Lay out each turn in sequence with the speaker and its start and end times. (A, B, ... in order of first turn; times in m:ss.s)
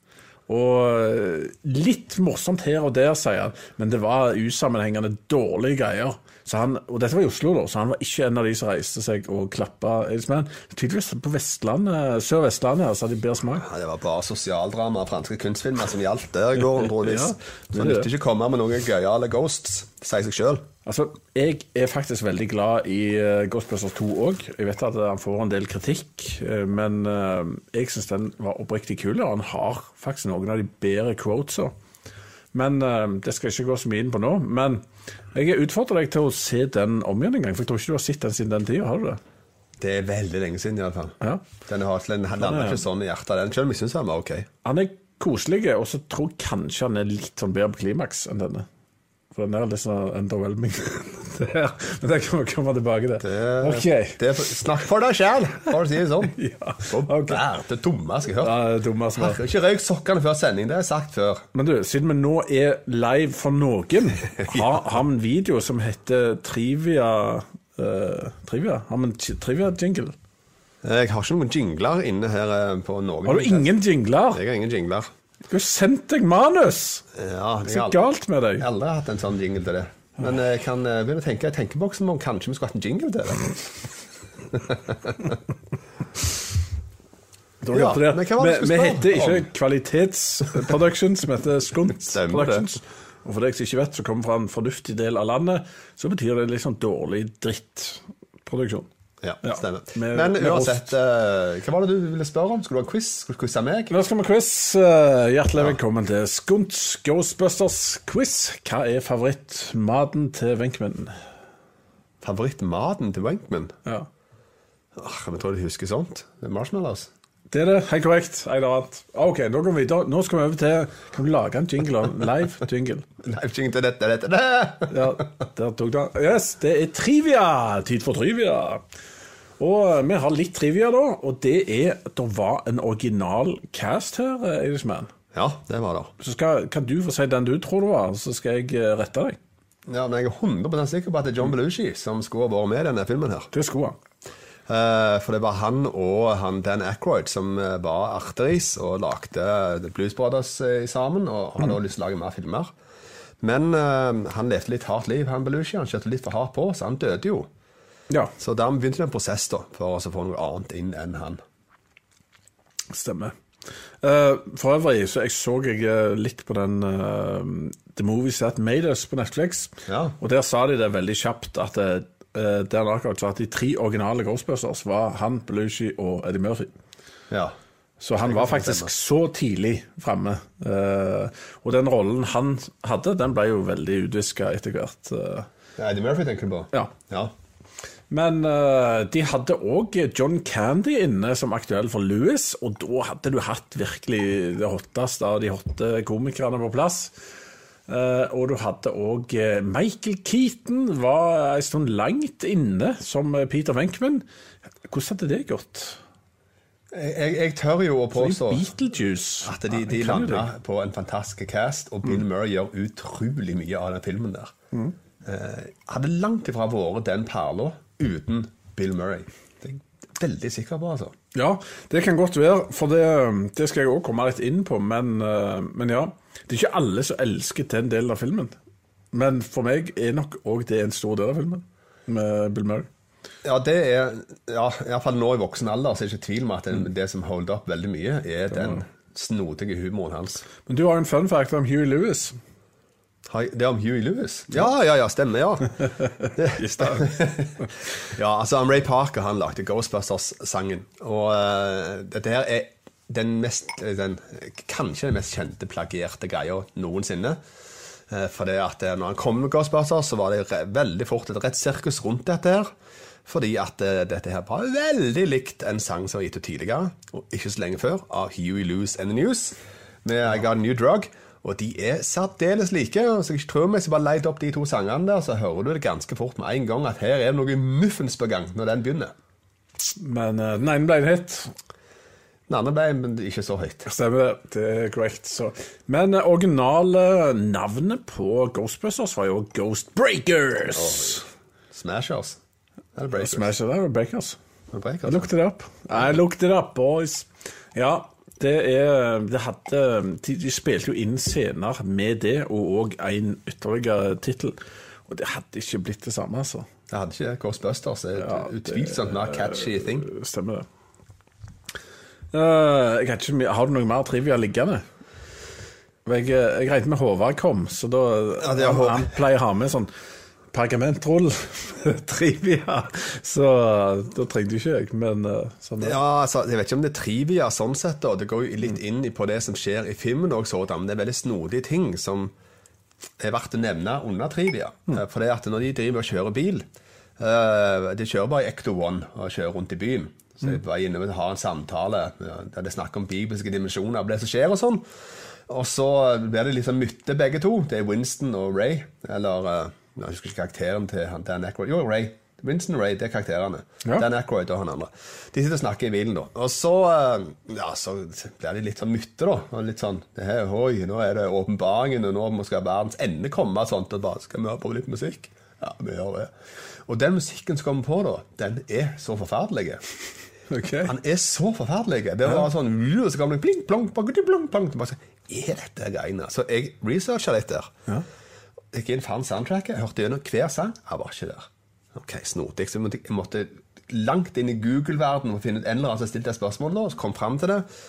0:00.5-0:13.6 A
0:13.6-0:20.6 B
0:16.6-0:18.1 A
0:20.8-0:31.7 A
0:32.5-0:34.8 A
0:35.3-0:39.2 A
0:39.8-0:41.2 B
0:41.7-0:44.5 B
0:42.4-0:42.8 A
0:44.6-0:48.6 A
0:49.3-0:54.5 A
0:53.2-0:58.6 B
0:56.2-0:57.4 A
0:58.4-0:59.4 A
0:59.1-1:01.4 B
1:01.5-1:10.2 A
1:04.4-1:04.7 B
1:10.8-1:13.7 B
1:13.2-1:14.4 A
1:14.3-1:15.0 B
1:15.5-1:17.0 A
1:17.1-1:18.0 B
1:17.6-1:18.7 A
1:18.6-1:23.9 B
1:24.5-1:25.4 B
1:27.6-1:38.9 A
1:27.7-1:29.5 B
1:32.0-1:32.6 B
1:39.2-1:43.9 B
1:39.4-1:40.9 A
1:43.9-1:51.2 A
1:52.2-1:53.8 B
1:55.0-1:57.1 B
1:57.5-2:03.1 A
2:03.2-2:05.1 B
2:04.9-2:08.8 A
2:09.6-2:15.1 A
2:15.3-2:16.1 B
2:16.2-2:19.4 A
2:19.9-2:23.5 B
2:23.5-2:24.0 A
2:24.7-2:32.7 B
2:33.4-2:37.5 B
2:38.4-2:41.4 B
2:42.9-2:43.4 A
2:44.0-2:56.7 A
2:49.9-2:50.1 B
2:57.3-2:57.5 B
2:58.0-3:05.5 A
2:58.2-2:58.9 B
3:05.8-3:07.3 B
3:08.1-3:17.1 A
3:17.9-3:24.2 A
3:24.9-3:26.0 A
3:26.9-3:28.7 B
3:28.1-3:30.5 A
3:29.4-3:34.5 B
3:35.2-3:41.1 B
3:41.3-3:48.5 A
3:49.1-3:52.9 A
3:53.4-4:00.4 B
4:00.6-4:02.4 A
4:03.3-4:17.4 B
4:06.2-4:07.0 A
4:18.1-4:22.7 B
4:23.2-4:39.1 B
4:39.9-4:41.5 A
4:42.5-4:43.8 B
4:43.8-4:51.2 A
4:50.7-4:52.4 B
4:53.0-4:53.5 B
4:53.1-4:54.4 A
4:54.7-4:55.3 B
4:55.0-5:06.7 A
5:06.9-5:10.1 B
5:08.1-5:10.6 A
5:12.3-5:14.8 A
5:16.0-5:19.9 A
5:18.4-5:19.1 B
5:20.5-5:26.0 A
5:25.8-5:32.3 B
5:33.2-5:36.6 B
5:37.2-5:44.8 B
5:45.5-6:06.3 B
6:06.8-6:09.8 B
6:10.5-6:10.9 A
6:10.8-6:17.7 B
6:18.7-6:27.6 B